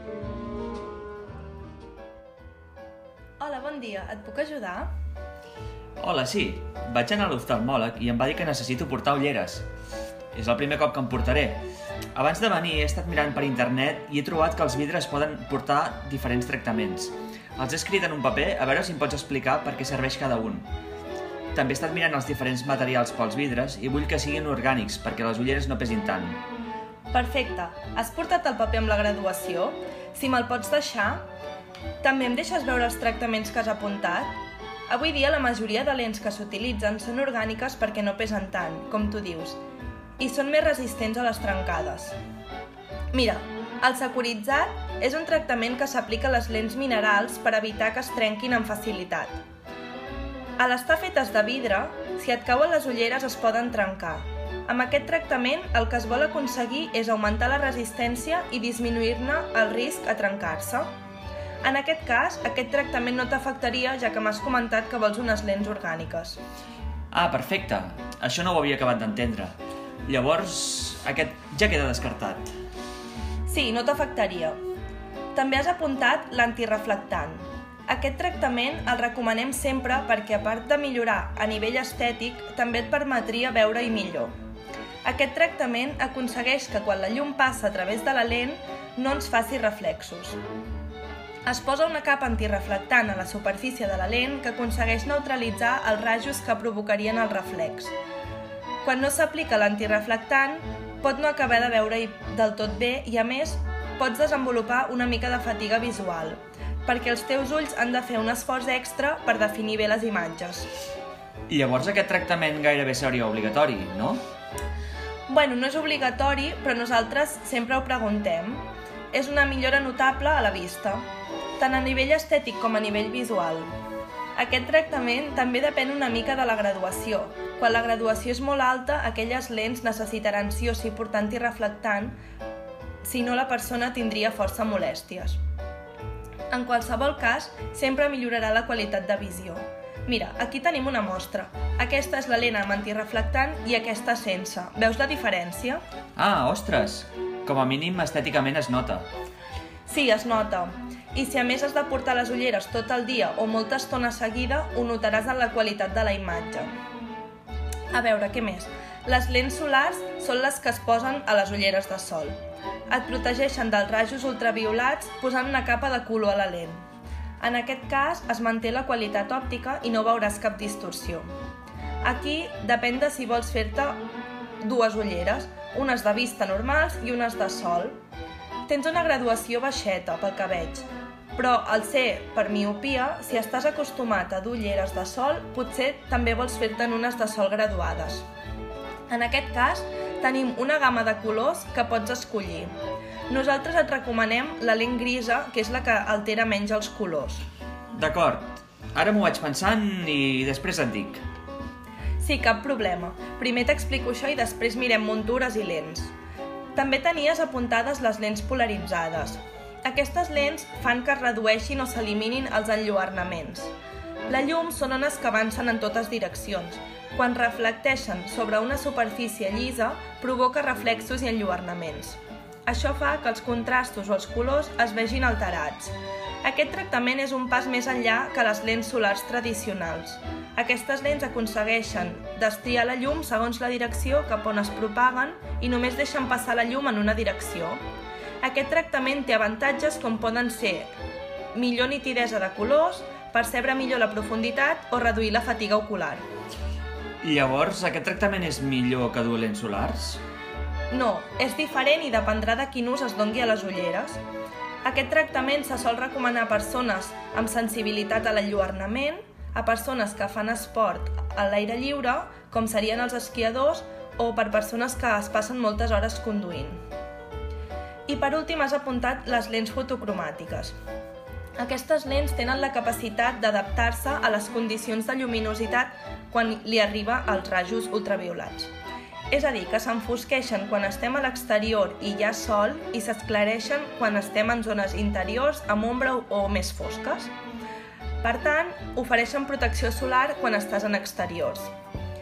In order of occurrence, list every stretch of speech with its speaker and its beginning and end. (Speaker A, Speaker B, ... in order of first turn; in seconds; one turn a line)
Speaker A: 3.4-4.9
Speaker B: 6.0-9.7
Speaker B: 10.3-11.6
Speaker B: 12.1-20.7
Speaker B: 21.5-26.4
Speaker A: 27.1-31.2
Speaker A: 32.0-34.3
Speaker A: 34.9-39.6
Speaker A: 40.2-42.1
Speaker A: 43.1-49.4
Speaker A: 50.6-60.9
Speaker A: 61.6-66.4
Speaker B: 67.1-72.5
Speaker A: 73.5-74.6
Speaker A: 75.3-84.3
Speaker A: 85.0-90.4
Speaker A: 91.4-97.9
Speaker A: 98.8-110.7
Speaker B: 111.5-114.2
Speaker A: 115.3-121.0
Speaker A: 121.6-123.7
Speaker A: 124.3-132.2
Speaker A: 133.0-135.4
Speaker A: 136.5-145.8
Speaker B: 146.2-149.1
Speaker A: 149.9-156.7
Speaker A: 157.9-162.4
Speaker A: 162.9-166.8
Speaker A: 167.4-171.2
Speaker A: 172.0-174.0
Speaker A: 174.6-178.0
Speaker A: 178.7-188.2
Speaker A: 189.1-192.7
Speaker A: 193.3-197.4
Speaker B: 197.9-201.2
Speaker A: 202.2-206.1
Speaker A: 206.7-213.7
Speaker A: 214.3-237.8
Speaker A: 238.4-240.9
Speaker A: 241.5-246.2
Speaker B: 247.2-250.2
Speaker A: 250.9-254.2
Speaker A: 254.8-266.8
Speaker A: 268.1-270.8
Speaker A: 271.6-278.7
Speaker A: 279.3-287.3
Speaker A: 288.2-291.7